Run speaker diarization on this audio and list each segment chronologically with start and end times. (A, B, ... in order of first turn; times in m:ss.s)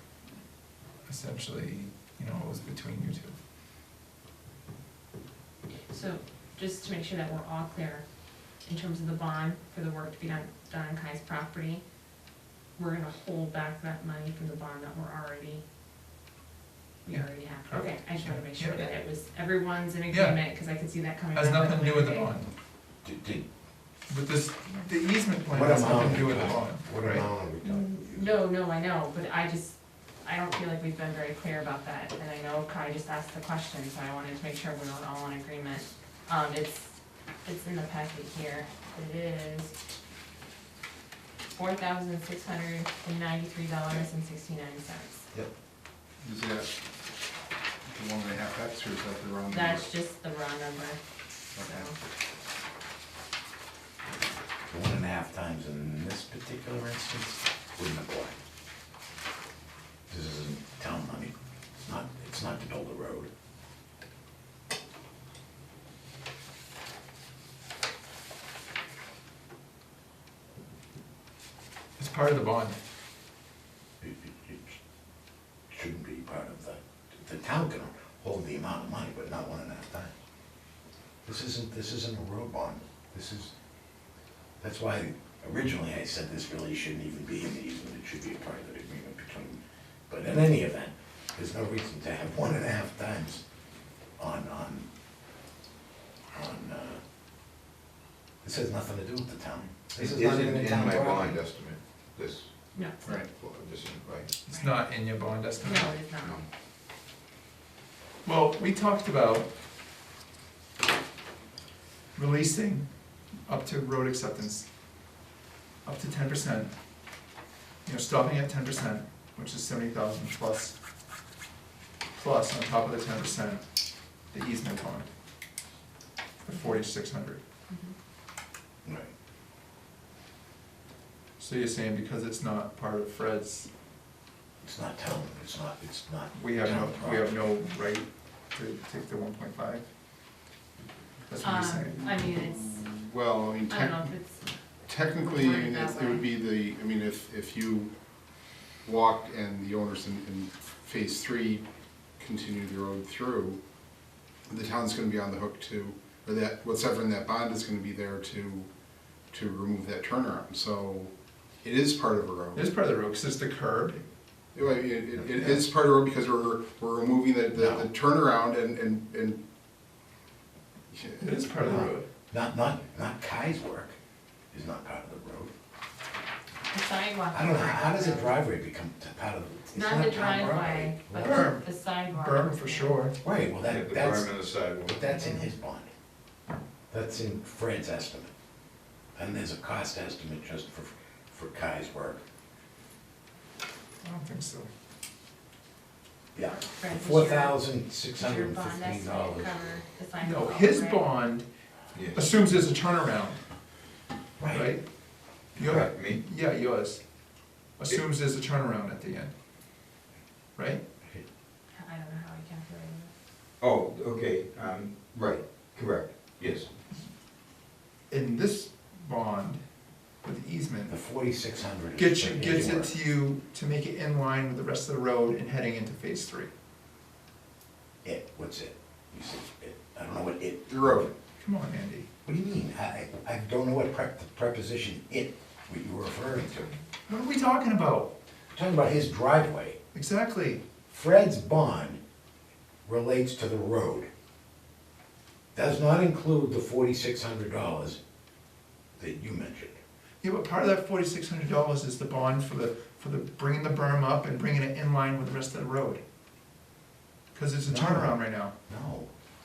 0:01.0-0:03.4 A
0:05.9-0:08.0 B
0:08.6-0:11.8 B
0:12.8-0:15.6 B
0:17.0-0:22.4 B
0:17.7-0:18.8 A
0:20.1-0:20.4 A
0:21.3-0:22.5 A
0:23.0-0:23.4 C
0:24.1-0:27.2 A
0:25.5-0:28.4 C
0:27.6-0:39.7 B
0:41.5-0:45.3 B
0:46.2-0:46.7 D
0:47.8-0:49.9 D
0:49.5-0:51.0 B
0:51.5-0:52.0 B
0:51.6-0:51.9 D
0:54.7-0:58.4 C
1:00.1-1:03.3 C
1:12.0-1:12.8 A
1:14.0-1:14.8 C
1:15.7-1:20.2 C
1:21.2-1:23.5 C
1:24.6-1:33.4 C
1:34.2-1:34.9 C
1:36.3-1:37.0 C
1:38.4-1:41.4 C
1:40.0-1:42.5 E
1:42.7-1:43.2 B
1:43.3-1:44.4 E
1:44.5-1:46.1 A
1:45.6-1:46.4 B
1:46.2-1:46.5 E
1:48.2-1:49.5 A
1:52.1-1:52.9 A
1:53.4-1:54.7 A
1:55.8-1:56.7 A
1:57.8-2:00.8 A
2:02.1-2:03.6 A
2:04.3-2:05.1 A
2:06.4-2:07.4 A
2:06.5-2:06.9 B
2:07.7-2:07.9 B
2:08.8-2:09.1 C
2:11.4-2:13.7 A
2:14.6-2:17.3 C
2:16.3-2:19.9 A
2:21.3-2:22.0 A
2:21.4-2:22.9 B
2:22.0-2:24.1 D
2:23.7-2:24.4 B
2:24.9-2:27.9 D
2:25.2-2:26.3 B
2:28.8-2:31.6 D
2:32.2-2:33.6 D
2:34.5-2:38.7 D
2:39.3-2:42.7 D
2:42.6-2:44.0 A
2:44.5-2:49.4 D
2:45.3-2:45.6 A
2:47.6-2:47.9 C
2:50.9-2:51.3 D
2:51.2-2:52.1 A
2:51.6-2:54.0 C
2:54.5-2:55.5 C
2:56.7-2:58.4 B
2:57.3-3:01.5 C
2:59.7-3:03.1 B
3:01.2-3:03.2 A
3:03.2-3:04.3 C
3:03.4-3:05.0 E
3:04.8-3:05.9 C
3:05.1-3:05.5 B
3:06.9-3:08.3 C
3:09.2-3:12.2 C
3:14.0-3:14.7 A
3:16.4-3:19.6 C
3:16.5-3:17.6 B
3:18.2-3:21.1 B
3:20.2-3:21.5 A
3:21.9-3:22.2 E
3:22.1-3:23.4 A
3:24.4-3:24.7 C
3:24.5-3:24.8 A
3:25.6-3:26.2 E
3:25.6-3:27.0 A
3:27.8-3:29.3 A
3:30.6-3:30.8 A
3:31.7-3:33.1 B
3:33.6-3:36.7 E
3:38.1-3:39.6 A
3:40.2-3:41.0 A
3:40.9-3:42.9 C
3:42.0-3:46.5 A
3:48.0-3:51.1 C
3:50.7-3:51.1 D
3:51.4-3:52.1 A
3:52.2-3:56.7 C
3:57.1-3:58.1 A
3:58.5-3:59.8 C
3:59.9-4:00.6 A
4:00.9-4:02.0 C
4:02.9-4:04.1 C
4:05.6-4:08.0 C
4:09.0-4:09.8 C
4:10.2-4:16.0 A
4:17.3-4:18.5 A
4:17.7-4:19.1 C